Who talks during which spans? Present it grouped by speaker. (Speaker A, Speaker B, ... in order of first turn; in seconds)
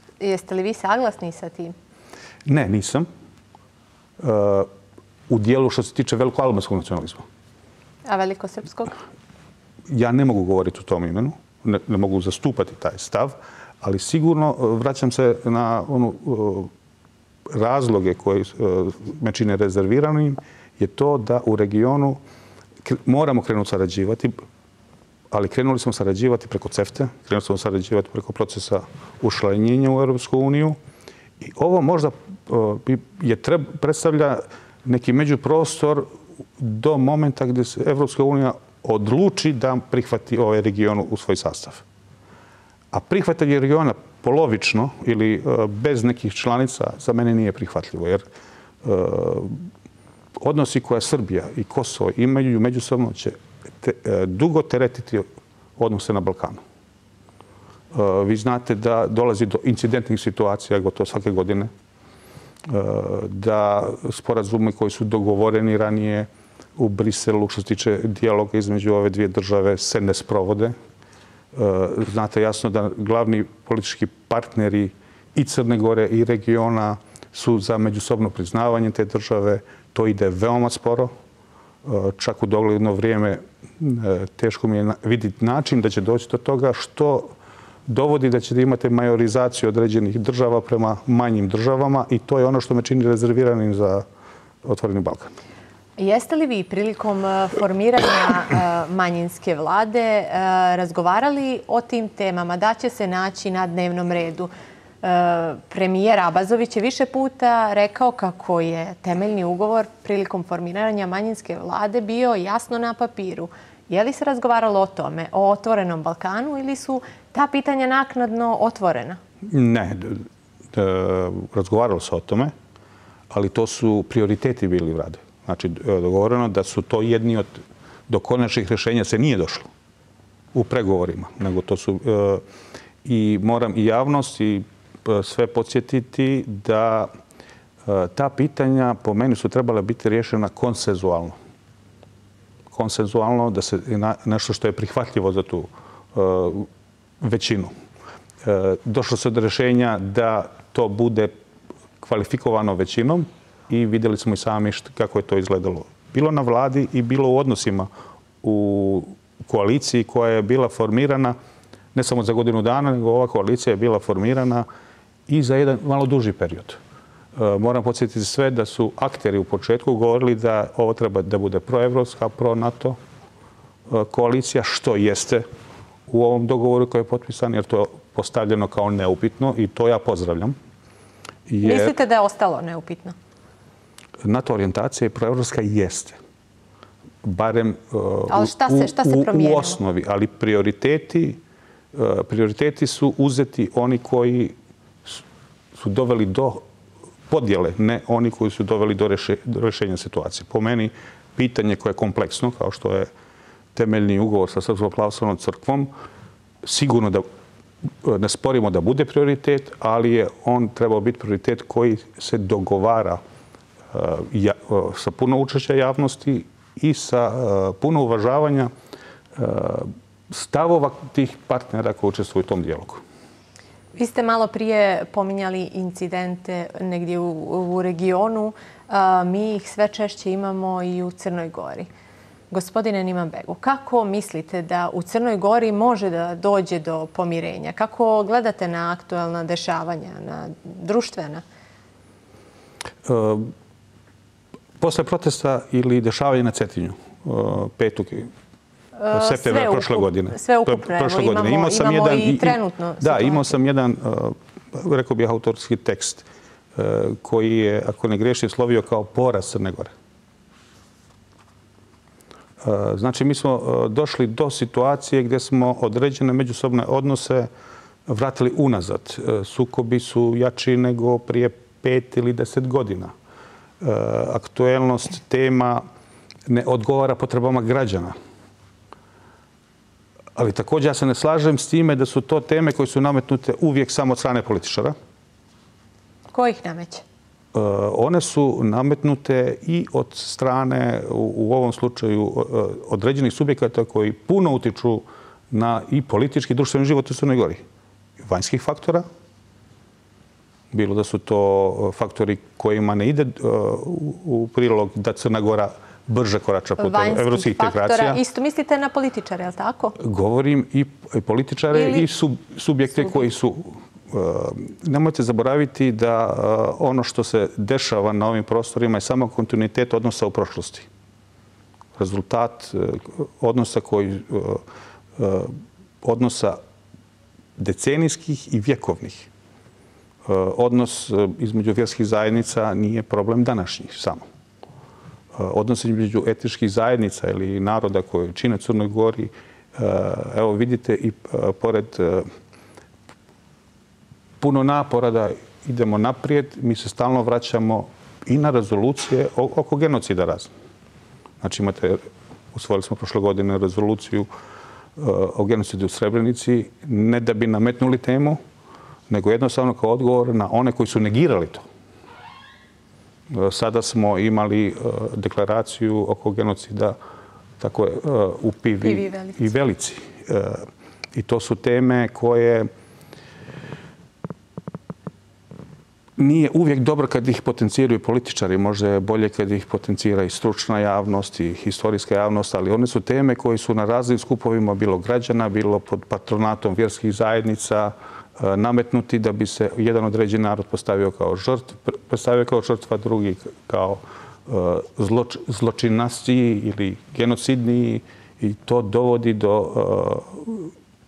Speaker A: 0.2-1.7, 8.1-9.0, 96.0-104.5, 105.0-119.2, 181.6-183.2, 188.3-189.8, 223.9-231.9, 232.5-241.4, 249.0-253.5, 286.3-287.0, 306.8-309.9, 311.7-312.1, 368.8-369.4
Speaker B: 2.5-3.1, 4.2-4.7, 5.3-7.2, 9.9-16.7, 17.5-22.2, 22.8-24.3, 25.3-30.8, 31.4-36.1, 36.6-41.8, 42.9-48.2, 48.8-49.6, 50.4-55.3, 55.8-56.6, 57.9-61.7, 62.6-70.7, 71.5-81.1, 81.8-87.3, 87.9-94.0, 94.6-95.3, 119.5-122.5, 123.3-129.7, 130.5-132.4, 133.0-137.1, 137.8-141.3, 142.7-146.7, 147.2-147.7, 148.4-151.3, 152.0-157.9, 158.4-161.3, 161.9-164.6, 165.3-166.8, 167.3-173.0, 173.9-175.4, 176.1-180.5, 181.5-181.9, 184.2-186.2, 187.2-191.4, 191.9-195.2, 195.7-196.6, 197.3-203.1, 203.7-205.9, 206.6-207.2, 208.0-213.2, 213.9-218.7, 219.3-223.0, 243.0-243.5, 244.8-248.3, 249.1-259.9, 262.6-267.5, 268.1-273.1, 273.8-275.8, 276.5-278.1, 280.3-284.9, 287.5-297.6, 298.2-299.1, 300.7-308.2, 310.0-320.9, 322.0-324.6, 325.1-326.6, 327.6-329.3, 330.2-334.2, 335.3-342.3, 344.4-350.5, 351.4-354.3, 354.9-358.4, 359.1-361.6, 363.3-367.0, 367.6-372.7, 376.2-400.7